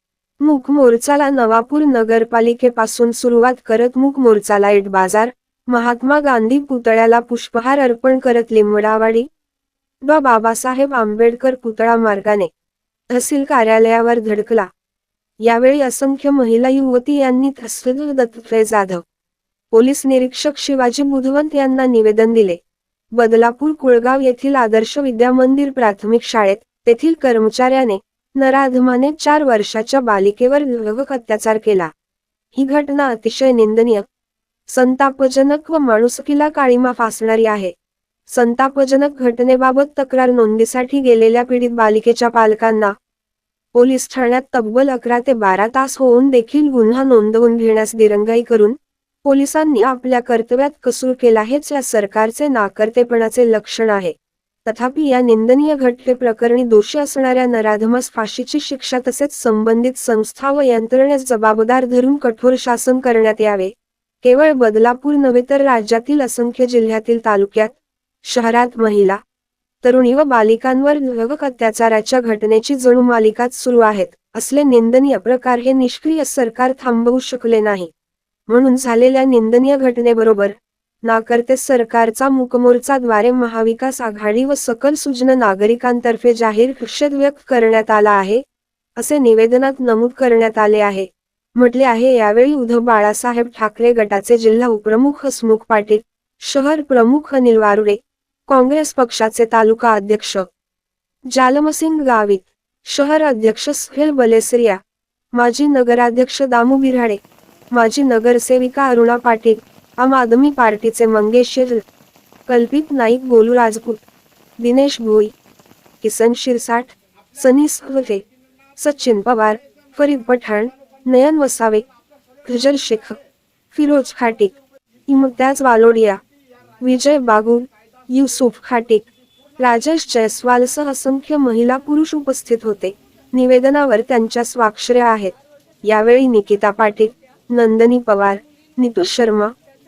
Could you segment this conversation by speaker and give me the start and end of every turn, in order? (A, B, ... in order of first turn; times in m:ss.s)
0:00.4-0:09.3 A
0:10.0-0:12.5 A
0:13.1-0:14.7 A
0:15.4-0:19.0 A
0:19.7-0:22.6 A
0:23.2-0:31.9 A
0:32.5-0:34.0 A
0:34.7-0:37.7 A
0:38.3-0:42.9 A
0:43.7-0:54.1 A
0:54.6-1:07.7 A
1:08.2-1:09.2 A
1:09.8-1:17.9 A
1:18.5-1:28.4 A
1:29.0-1:40.5 A
1:41.3-1:44.8 A
1:45.4-1:47.2 A
1:47.7-1:51.8 A
1:52.5-1:54.0 A
1:54.6-1:55.3 A
1:56.0-1:58.2 A
1:58.8-2:01.8 A
2:02.4-2:03.2 A
2:03.7-2:04.5 A
2:05.1-2:06.2 A
2:06.8-2:09.1 A
2:09.6-2:15.3 A
2:15.8-2:19.5 A